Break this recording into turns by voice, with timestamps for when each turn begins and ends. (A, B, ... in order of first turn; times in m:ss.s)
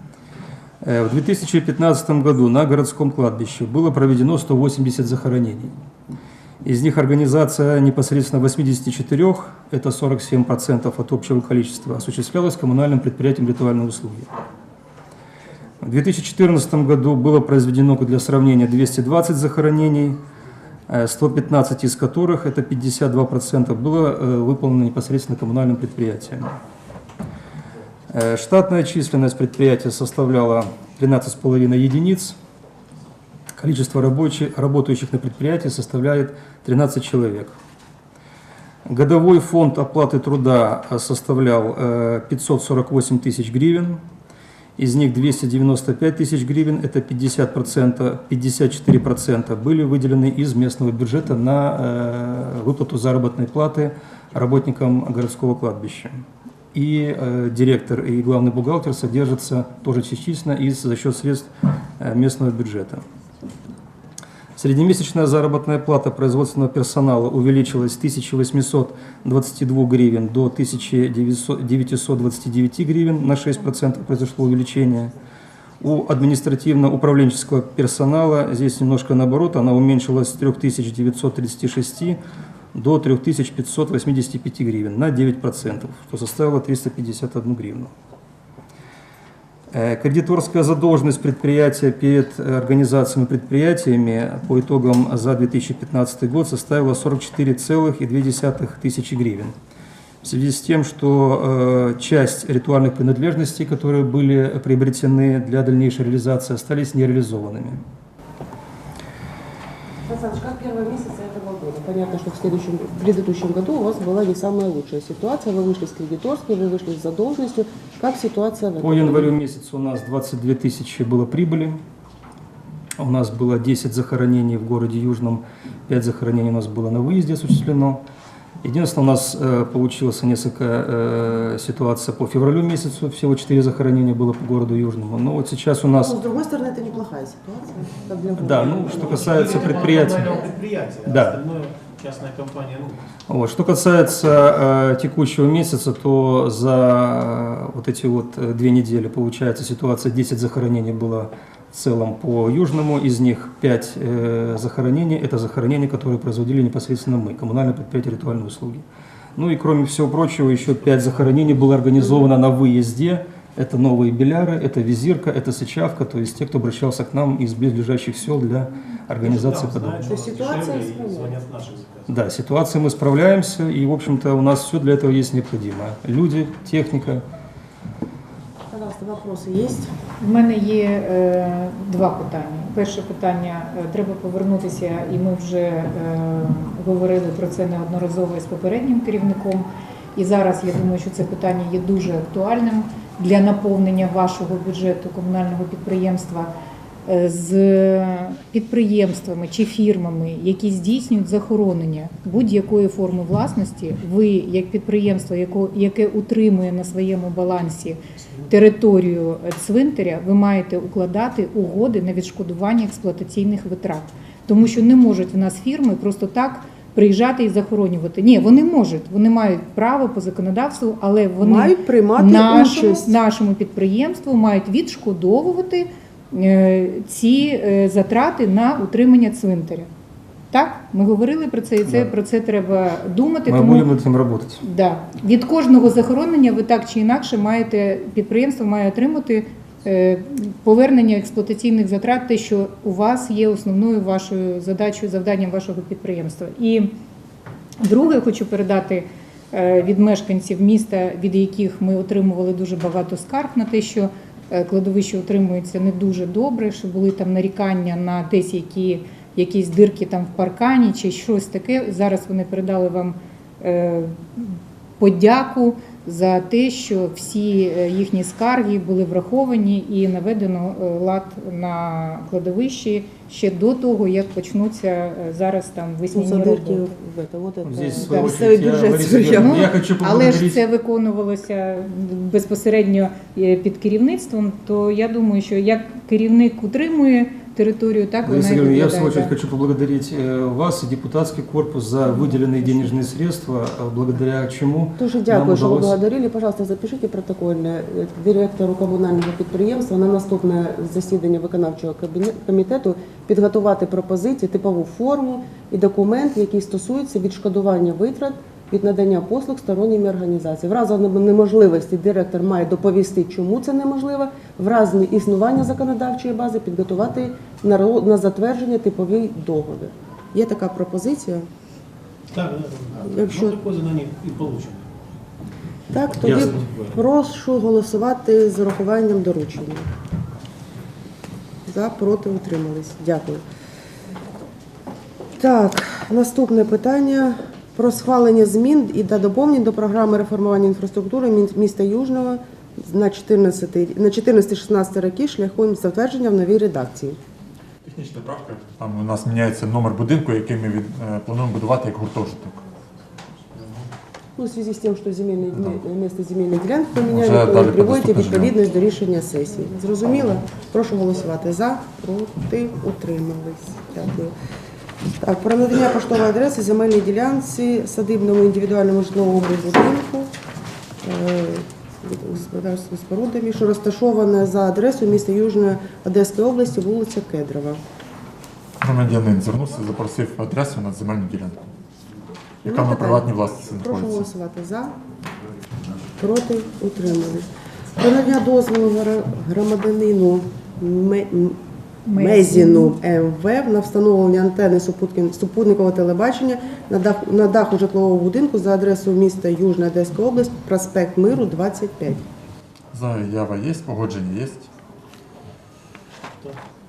0:00.8-0:05.7 A
0:06.6-0:14.3 A
0:15.8-0:20.2 A
0:20.9-0:26.6 A
0:28.1-0:32.4 A
0:33.6-0:37.6 A
0:38.9-0:44.0 A
0:44.8-1:03.0 A
1:04.6-1:15.1 A
1:15.8-1:22.2 A
1:22.7-1:27.9 A
1:29.7-1:39.5 A
1:40.2-1:47.8 A
1:50.0-1:59.3 B
1:58.8-2:01.8 A
2:03.0-2:08.0 A
2:08.6-2:16.1 A
2:15.9-2:20.4 B
2:18.4-2:20.5 A
2:18.6-2:23.1 C
2:21.0-2:21.4 A
2:23.3-2:38.8 A
2:39.4-2:50.1 A
2:49.2-2:52.2 C
2:50.1-2:51.4 B
2:52.1-2:57.2 A
2:58.7-2:59.9 B
3:00.2-3:16.5 D
3:17.1-3:49.9 D
3:28.2-3:28.6 C
3:41.4-3:43.1 B
3:50.5-3:53.9 D
3:53.5-3:54.6 A
3:54.6-4:07.0 D
4:07.8-4:36.9 D
4:36.1-4:39.7 B
4:37.6-4:40.6 A
4:38.0-4:38.4 D
4:39.3-4:49.3 D
4:48.2-4:56.0 A
4:55.0-5:21.5 B
5:22.3-5:24.9 C
5:23.0-5:23.6 B
5:25.9-5:29.9 B
5:26.1-5:27.0 C
5:26.2-5:26.6 A
5:31.6-5:33.4 B
5:35.4-5:47.2 B
5:47.8-5:52.6 E
5:54.4-6:04.3 B
5:57.0-5:58.5 E
6:05.2-6:10.3 B
6:11.0-6:17.8 B
6:18.8-6:21.7 E
6:22.6-6:24.3 E
6:22.6-6:24.9 B
6:26.2-6:31.6 B
6:32.0-6:33.0 D
6:32.1-6:42.2 B
6:42.9-6:44.7 E